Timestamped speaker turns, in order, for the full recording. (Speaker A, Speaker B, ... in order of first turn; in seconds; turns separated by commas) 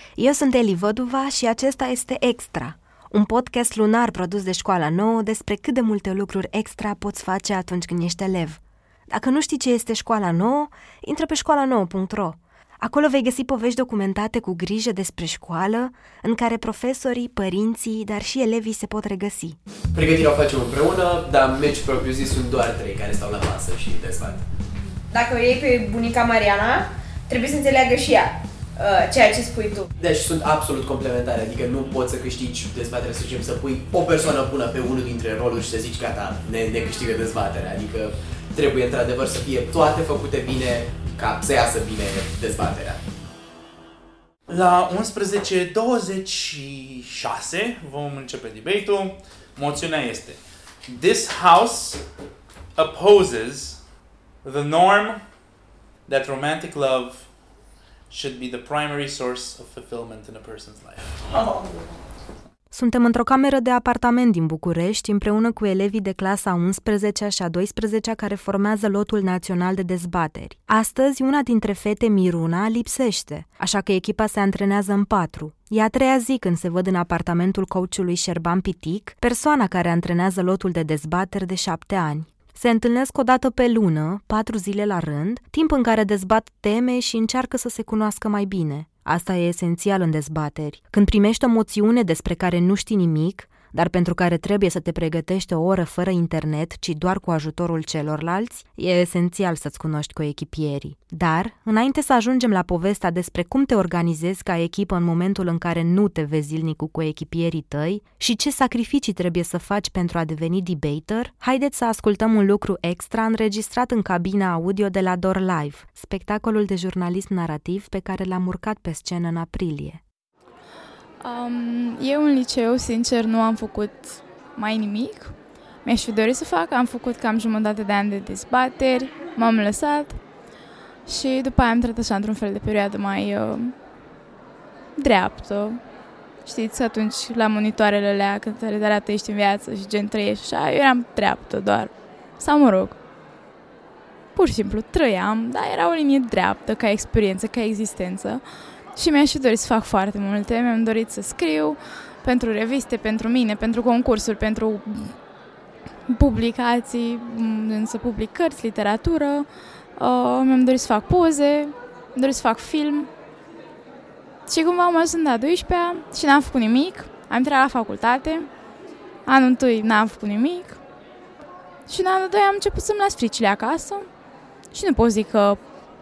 Speaker A: 0.2-19.6, Speaker B: 19.9-24.4, Speaker C: 25.1-29.9, Speaker B: 30.0-43.0, Speaker D: 44.5-52.0, Speaker D: 52.8-53.8, Speaker D: 54.4-55.2, Speaker D: 56.1-57.3, Speaker D: 58.1-61.8, Speaker A: 62.7-120.0, Speaker E: 121.2-130.2, Speaker E: 131.1-133.8, Speaker E: 135.0-135.8, Speaker E: 136.4-143.0, Speaker E: 144.3-155.2, Speaker E: 156.1-163.1, Speaker E: 164.5-168.5, Speaker E: 169.2-170.8, Speaker E: 171.9-174.1, Speaker E: 174.7-175.6